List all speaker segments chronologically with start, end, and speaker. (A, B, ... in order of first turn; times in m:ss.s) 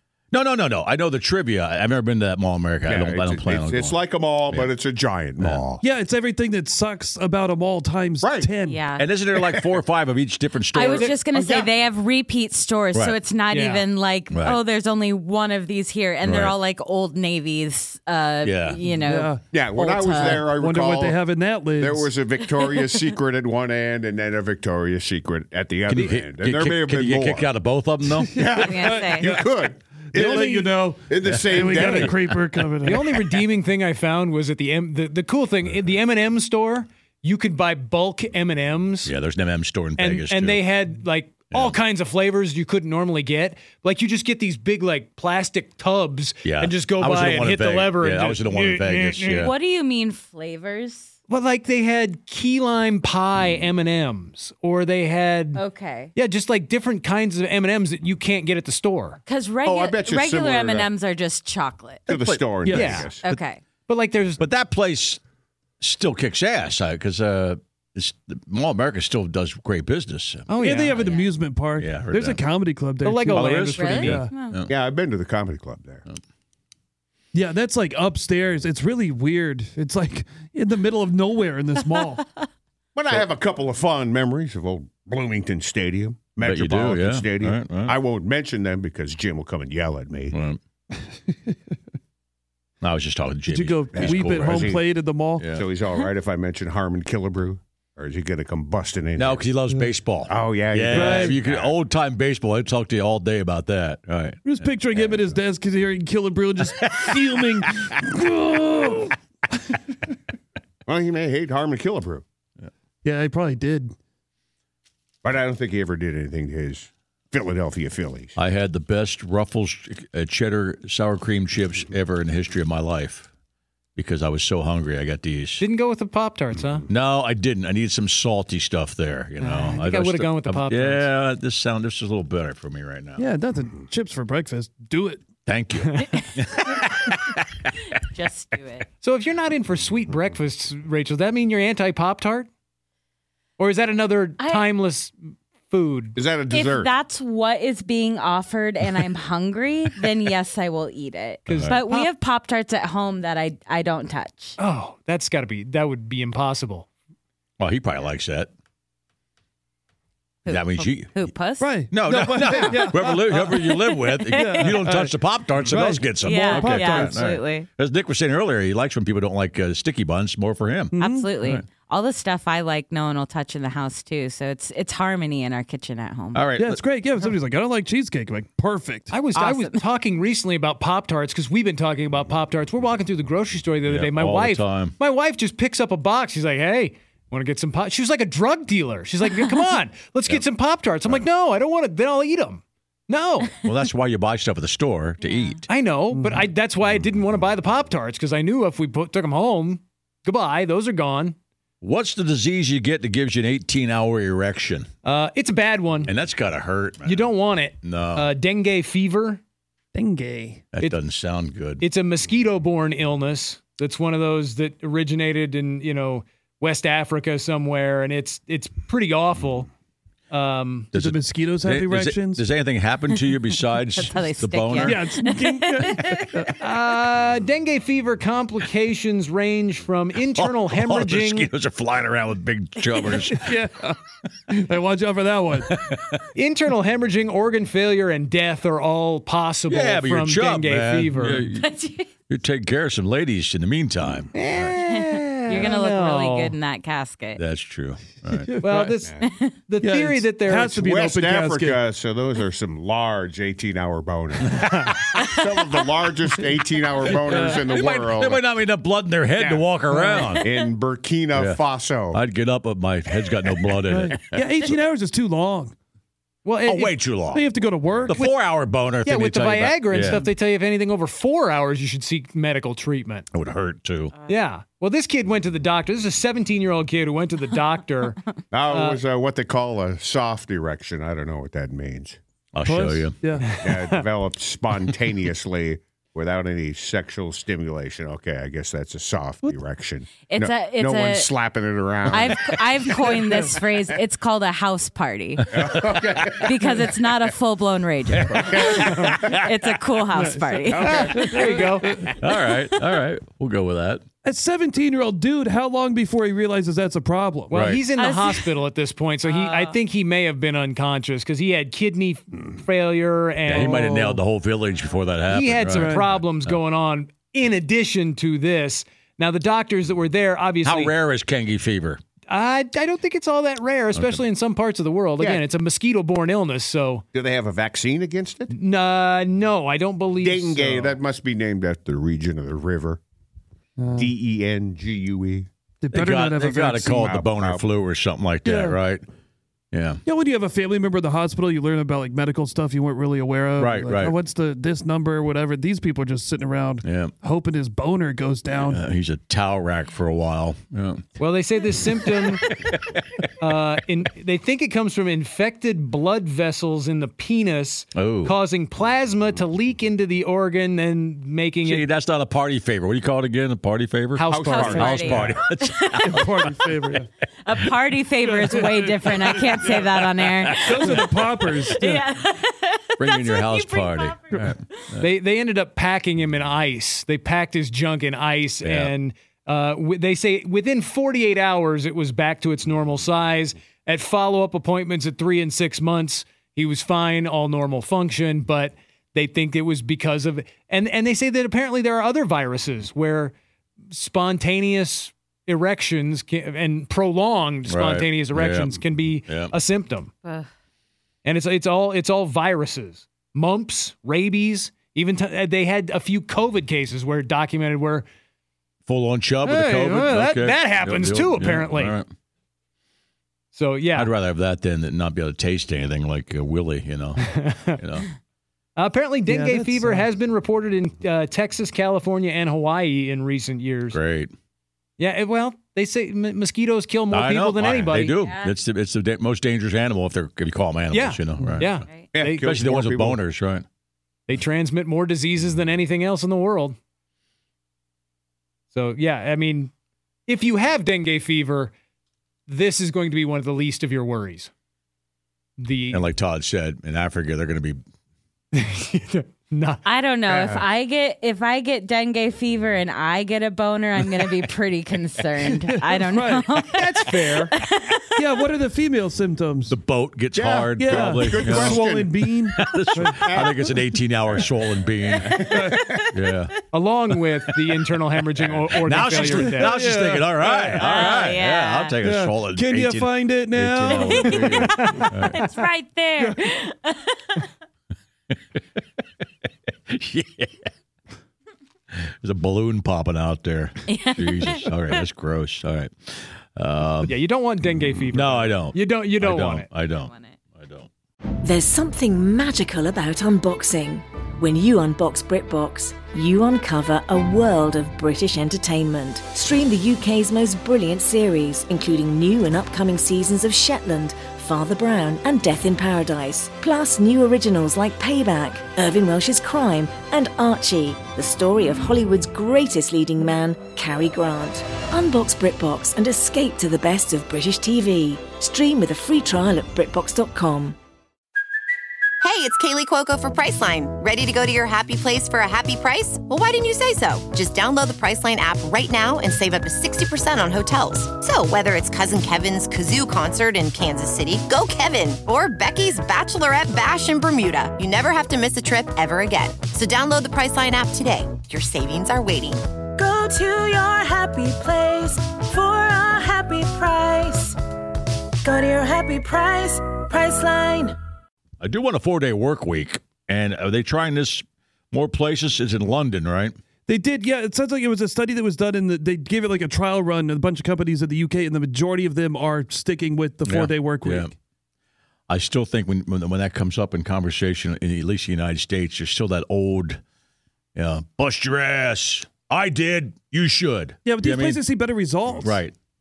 0:00.3-0:04.7 A
0:02.8-0:05.8 B
0:05.4-0:05.6 A
0:05.8-0:08.8 C
0:08.2-0:08.6 B
0:08.6-0:09.0 D
0:09.0-0:11.3 A
0:09.4-0:09.7 B
0:10.7-0:20.5 D
0:11.3-0:11.7 B
0:12.9-0:13.2 A
0:13.5-0:13.9 E
0:14.3-0:14.6 A
0:16.2-0:16.6 A
0:18.4-0:18.8 A
0:19.0-0:19.6 C
0:19.5-0:21.2 B
0:20.5-0:22.1 C
0:21.8-0:27.5 B
0:25.9-0:28.4 A
0:28.1-0:29.3 C
0:28.3-0:32.3 B
0:28.5-0:29.3 D
0:30.1-0:33.0 C
0:31.2-0:32.3 A
0:32.8-0:39.1 E
0:39.0-0:40.6 A
0:40.0-0:49.4 E
0:41.5-0:41.8 A
0:46.4-0:49.5 A
0:49.3-0:51.1 D
0:51.3-0:59.2 E
0:55.5-0:56.1 D
0:59.2-1:02.3 D
0:59.6-1:00.9 B
1:02.1-1:03.2 B
1:02.6-1:03.1 C
1:02.7-1:03.1 E
1:03.1-1:03.6 D
1:03.9-1:04.4 E
1:04.4-1:05.2 A
1:05.8-1:10.9 A
1:10.5-1:11.1 E
1:10.6-1:13.5 C
1:10.9-1:11.3 D
1:11.7-1:12.4 A
1:13.0-1:14.2 E
1:13.3-1:14.7 A
1:13.7-1:14.6 D
1:14.6-1:16.0 B
1:17.3-1:22.2 C
1:22.9-1:30.4 B
1:26.4-1:28.0 A
1:30.3-1:30.6 A
1:32.8-1:34.8 A
1:33.5-1:35.5 C
1:33.9-1:34.9 B
1:35.3-1:35.7 A
1:35.5-1:39.5 B
1:39.2-1:45.2 A
1:40.3-1:41.7 B
1:40.9-1:41.4 C
1:44.4-1:49.1 C
1:46.8-1:47.2 A
1:50.8-1:52.2 B
1:53.0-1:53.9 C
1:55.2-1:58.3 B
1:58.4-2:03.3 A
2:04.0-2:05.6 A
2:05.6-2:06.8 E
2:06.9-2:13.3 A
2:09.4-2:11.1 E
2:13.2-2:15.2 C
2:15.4-2:17.3 A
2:18.0-2:18.9 D
2:19.0-2:22.5 E
2:23.6-2:25.1 E
2:24.4-2:24.6 D
2:25.7-2:26.2 E
2:26.1-2:26.9 B
2:26.5-2:34.6 D
2:31.4-2:32.1 E
2:31.5-2:31.8 A
2:34.6-2:36.9 E
2:37.6-2:38.5 A
2:40.4-2:41.7 D
2:40.5-2:51.6 A
2:41.6-2:43.6 C
2:42.6-2:42.9 D
2:43.6-2:44.8 D
2:44.3-2:47.2 C
2:46.2-2:47.7 D
2:51.0-2:51.3 C
2:51.0-2:56.5 D
2:56.3-2:56.8 A
2:56.6-2:59.1 C
2:59.1-3:13.5 E
2:59.3-2:59.8 D
3:03.8-3:04.9 A
3:13.6-3:15.7 A
3:15.2-3:15.6 D
3:15.7-3:21.4 E
3:21.8-3:24.9 A
3:25.0-3:26.1 E
3:26.0-3:28.3 A
3:27.0-3:29.4 E
3:30.0-3:30.6 C
3:30.7-3:31.8 A
3:31.8-3:39.7 E
3:40.3-3:40.9 E
3:40.9-3:45.0 A
3:40.9-3:42.4 C
3:43.9-3:46.5 D
3:44.8-3:46.5 C
3:46.6-3:51.5 E
3:50.3-3:53.6 A
3:53.4-3:54.0 C
3:54.5-3:55.7 C
3:55.7-3:56.2 A
3:56.3-4:01.5 E
3:59.7-4:01.7 A
4:01.5-4:02.1 D
4:02.3-4:04.7 A
4:04.3-4:06.5 E
4:04.8-4:07.4 D
4:07.4-4:08.5 A
4:08.4-4:09.0 C
4:08.6-4:10.8 E
4:09.2-4:09.7 D
4:09.8-4:11.8 C
4:10.8-4:18.4 B
4:14.6-4:15.0 A
4:17.1-4:20.5 A
4:19.4-4:19.7 B
4:20.0-4:20.3 C
4:20.3-4:22.2 B
4:21.3-4:24.3 A
4:23.9-4:25.7 C
4:26.4-4:27.0 E
4:26.6-4:27.4 A
4:27.3-4:28.1 C
4:28.0-4:30.2 A
4:29.0-4:33.3 E
4:33.3-4:34.1 A
4:34.3-4:39.0 E
4:38.5-4:42.2 B
4:42.5-4:43.2 A
4:42.6-4:43.4 C
4:43.4-4:44.0 E
4:43.6-4:53.5 B
4:50.2-4:51.4 D
4:52.1-5:01.4 D
4:55.5-4:56.8 B
4:55.6-4:55.9 A
4:58.2-4:59.3 B
4:58.8-4:59.1 E
5:00.2-5:02.0 C
5:00.7-5:01.4 B
5:00.8-5:02.1 E
5:02.2-5:04.0 A
5:02.2-5:02.8 D
5:04.2-5:07.5 C
5:07.5-5:14.1 E
5:07.5-5:07.8 A
5:07.9-5:08.6 D
5:09.2-5:09.8 D
5:13.4-5:16.6 A
5:13.6-5:14.1 C
5:15.3-5:20.9 E
5:15.8-5:16.0 C
5:20.6-5:22.0 A
5:22.3-5:27.0 E
5:23.9-5:24.2 A
5:25.2-5:25.4 B
5:27.1-5:28.5 B
5:28.5-5:31.0 E
5:30.2-5:33.0 B
5:33.8-5:34.1 C
5:33.9-5:35.5 B
5:35.8-5:37.0 C
5:35.9-5:39.0 A
5:36.9-5:37.7 B
5:38.4-5:38.8 C
5:39.7-5:40.0 A
5:40.0-5:48.8 C
5:43.6-5:44.2 A
5:46.8-5:47.1 A
5:48.5-5:51.0 A
5:51.2-5:52.4 E
5:53.4-6:01.9 E
5:57.9-5:58.3 A
6:01.6-6:06.5 A
6:04.1-6:05.4 E
6:04.3-6:04.9 B
6:04.4-6:06.4 D
6:06.1-6:07.1 C
6:07.4-6:14.4 D
6:08.2-6:09.9 C
6:10.4-6:11.0 A
6:10.6-6:12.0 C
6:13.0-6:15.1 A
6:15.0-6:33.3 E
6:18.6-6:18.9 A
6:33.9-6:40.1 E
6:37.7-6:39.5 A
6:41.2-6:48.1 E
6:48.8-6:52.1 A
6:49.4-6:51.9 E
6:53.5-6:54.1 E
6:53.9-6:58.1 A
6:57.2-6:57.8 E
6:58.8-7:04.0 E
6:59.3-7:00.0 C
7:03.9-7:04.3 A
7:05.0-7:08.2 E
7:07.1-7:11.8 A
7:08.1-7:08.6 D
7:10.9-7:12.5 E
7:12.1-7:13.2 B
7:12.3-7:13.6 A
7:14.3-7:16.8 E
7:18.7-7:19.7 E
7:20.3-7:21.7 E
7:22.5-7:24.5 E
7:25.6-7:26.0 E
7:25.9-7:27.8 A
7:28.5-7:29.8 E
7:29.8-7:38.2 D
7:30.3-7:30.6 B
7:35.4-7:36.6 C
7:36.7-7:37.5 E
7:38.2-7:39.8 C
7:39.7-7:45.6 A
7:40.3-7:42.2 B
7:40.8-7:43.5 C
7:43.1-7:43.5 B
7:45.3-7:46.0 D
7:45.4-7:45.8 B
7:46.1-7:46.5 A
7:46.7-7:49.7 E
7:48.8-7:55.4 A
7:49.3-7:50.8 C
7:50.8-7:52.0 D
7:52.0-7:55.0 C
7:53.9-7:57.4 D
7:58.3-7:58.6 A
7:59.9-8:00.7 A
8:01.9-8:07.1 A
8:03.9-8:05.0 D
8:07.0-8:09.7 E
8:08.1-8:10.9 A
8:10.0-8:10.4 D
8:11.4-8:40.8 F
8:42.2-9:02.6 G
9:03.0-9:07.5 F
9:08.4-9:10.9 F
9:11.6-9:16.6 A
9:16.9-9:24.3 C
9:23.4-9:24.3 A
9:25.3-9:30.0 A
9:30.8-9:34.7 A
9:34.0-9:35.6 C
9:35.4-9:35.7 A